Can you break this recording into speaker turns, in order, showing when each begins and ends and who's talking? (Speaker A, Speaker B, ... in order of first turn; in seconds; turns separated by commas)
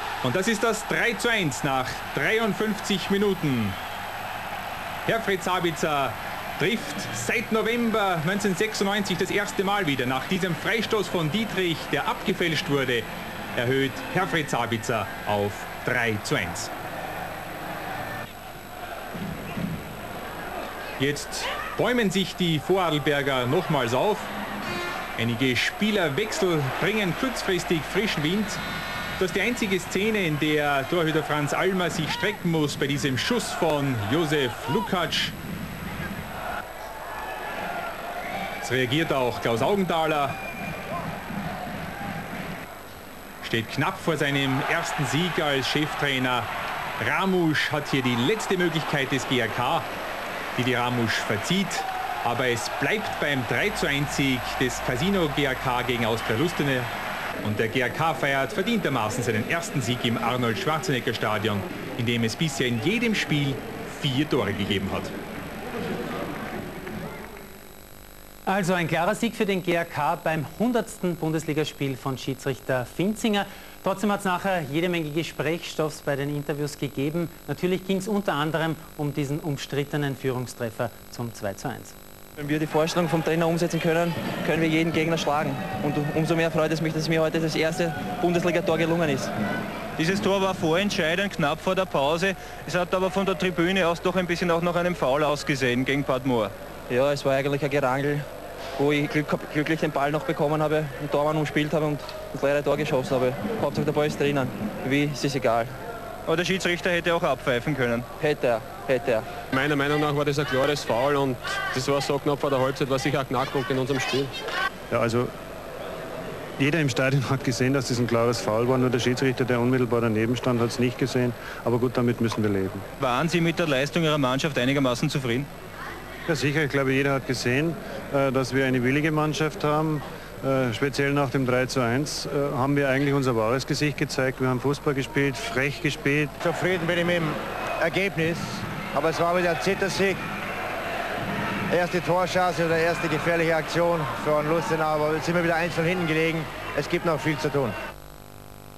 Speaker A: 0.2-3.8, Speaker A: 5.1-16.7, Speaker A: 21.0-24.3, Speaker A: 25.2-28.6, Speaker A: 29.2-35.4, Speaker A: 38.6-40.4, Speaker A: 43.4-49.9, Speaker A: 50.6-56.9, Speaker A: 57.4-65.1, Speaker B: 68.5-82.0, Speaker C: 82.4-89.3, Speaker D: 90.0-96.5, Speaker C: 96.9-98.2, Speaker C: 98.8-105.7, Speaker D: 106.3-108.1, Speaker C: 108.2-109.3, Speaker E: 109.5-114.3, Speaker F: 114.9-115.3, Speaker F: 116.6-122.8, Speaker D: 123.0-125.5, Speaker F: 126.3-136.4, Speaker G: 136.4-140.2, Speaker G: 141.7-147.7